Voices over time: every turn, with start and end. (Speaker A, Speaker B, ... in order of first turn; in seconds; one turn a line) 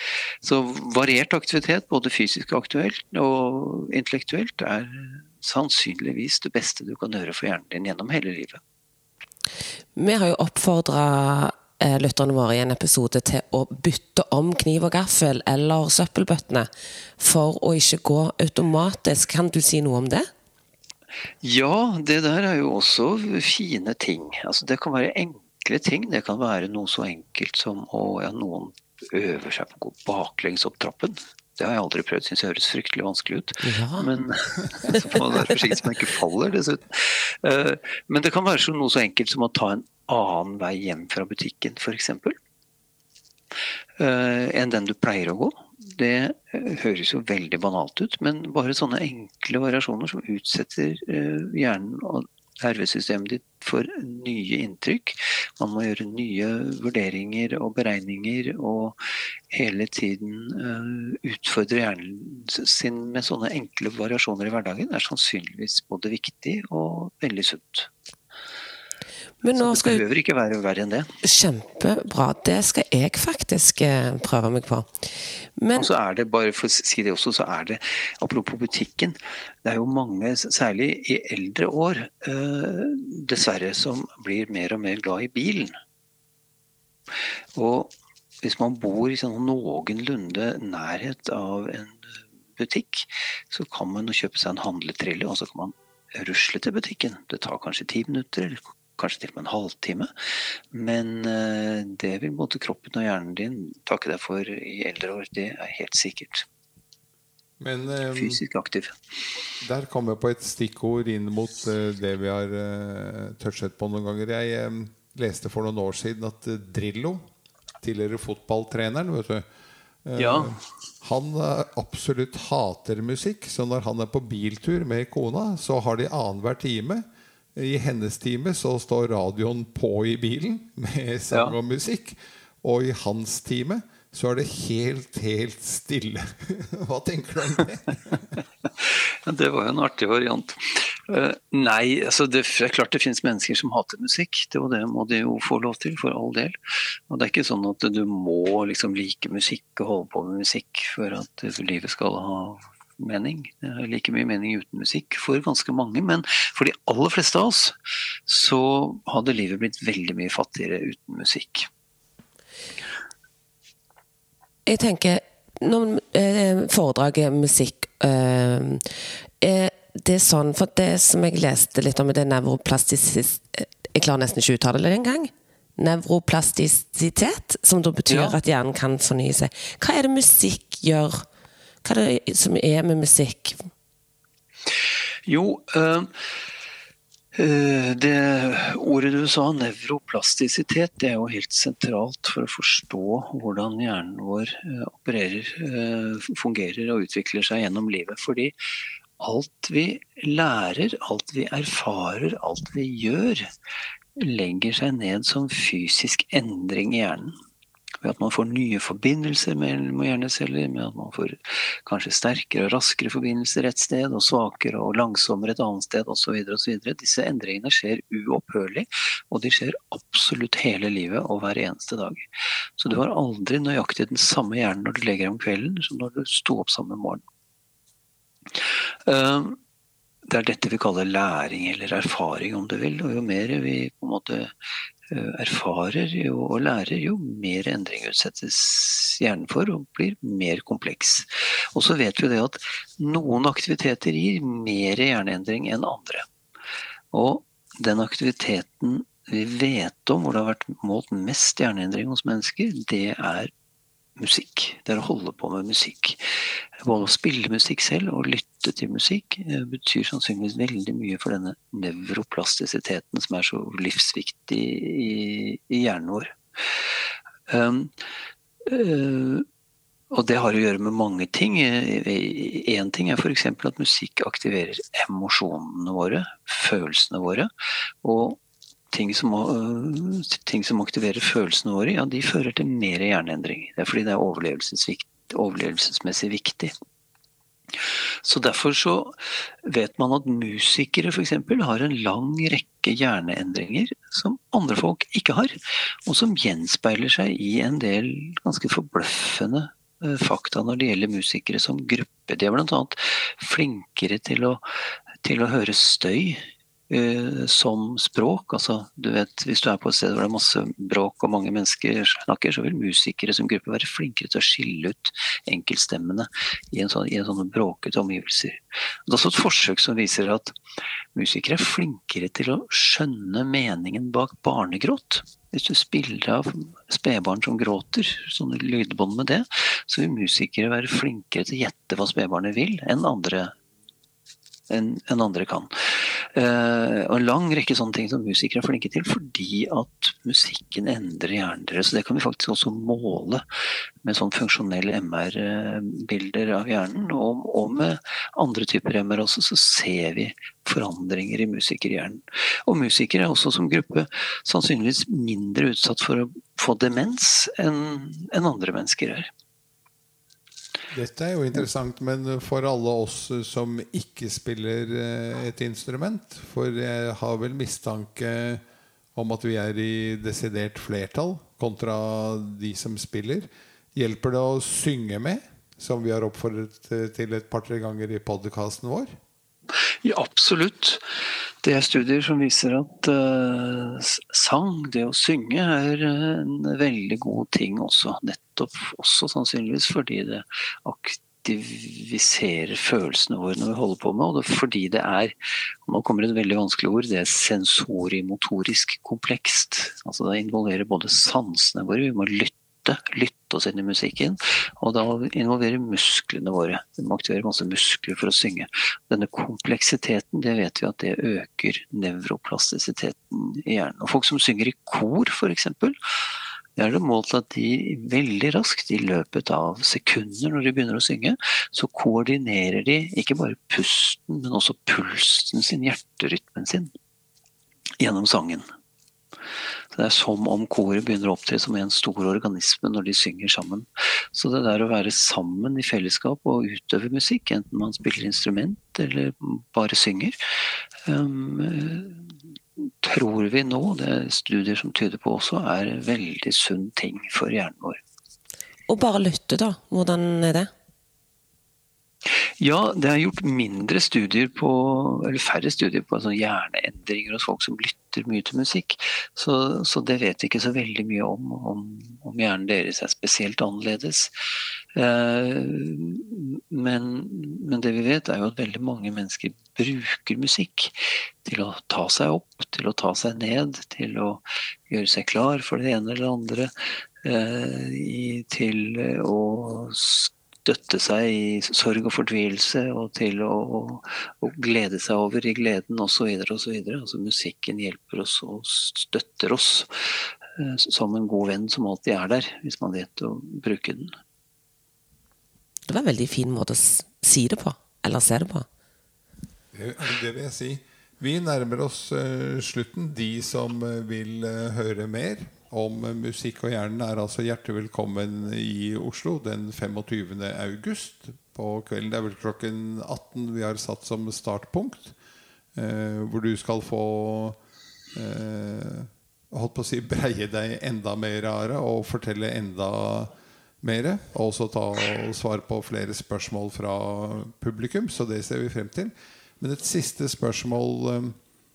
Speaker A: 0.4-8.6
Speaker B: 10.0-20.3
Speaker A: 21.4-42.4
Speaker B: 33.6-34.1
Speaker A: 44.0-59.0
Speaker A: 59.5-67.9
Speaker B: 69.4-70.0
Speaker A: 69.5-71.1
Speaker B: 71.2-74.9
Speaker B: 75.6-75.9
Speaker A: 75.7-85.7
Speaker A: 87.5-106.5
Speaker C: 107.6-108.4
Speaker A: 108.1-109.0
Speaker C: 109.6-117.2
Speaker C: 117.8-119.5
Speaker C: 120.0-138.4
Speaker A: 120.2-120.5
Speaker A: 138.6-146.6
Speaker A: 147.1-161.7
Speaker B: 164.7-168.8
Speaker B: 169.4-181.2
Speaker A: 178.1-178.4
Speaker B: 181.8-183.6
Speaker A: 185.3-186.1
Speaker A: 187.3-198.6
Speaker A: 199.2-203.5
Speaker A: 204.2-207.3
Speaker A: 208.0-222.3
Speaker A: 222.8-227.2
Speaker A: 228.5-229.6
Speaker A: 230.3-234.5
Speaker A: 235.1-246.3
Speaker A: 247.1-253.5
Speaker A: 254.2-266.9
Speaker A: 267.5-267.9
Speaker A: 268.6-269.4
Speaker A: 270.1-277.5
Speaker A: 278.0-278.4
Speaker A: 278.9-286.7
Speaker A: 287.7-304.6
Speaker A: 305.2-320.6
Speaker A: 321.1-333.5
Speaker A: 334.7-343.4
Speaker A: 344.0-359.3
Speaker C: 360.9-368.6
Speaker C: 369.1-379.1
Speaker A: 380.0-381.0
Speaker A: 381.6-415.9
Speaker A: 416.8-426.9
Speaker A: 428.0-428.6
Speaker A: 429.9-440.4
Speaker A: 441.1-448.0
Speaker B: 448.9-450.7
Speaker A: 452.3-464.3
Speaker A: 464.9-476.7
Speaker A: 477.2-494.1
Speaker B: 495.9-498.6
Speaker C: 499.7-515.1
Speaker C: 515.8-517.6
Speaker C: 518.1-531.4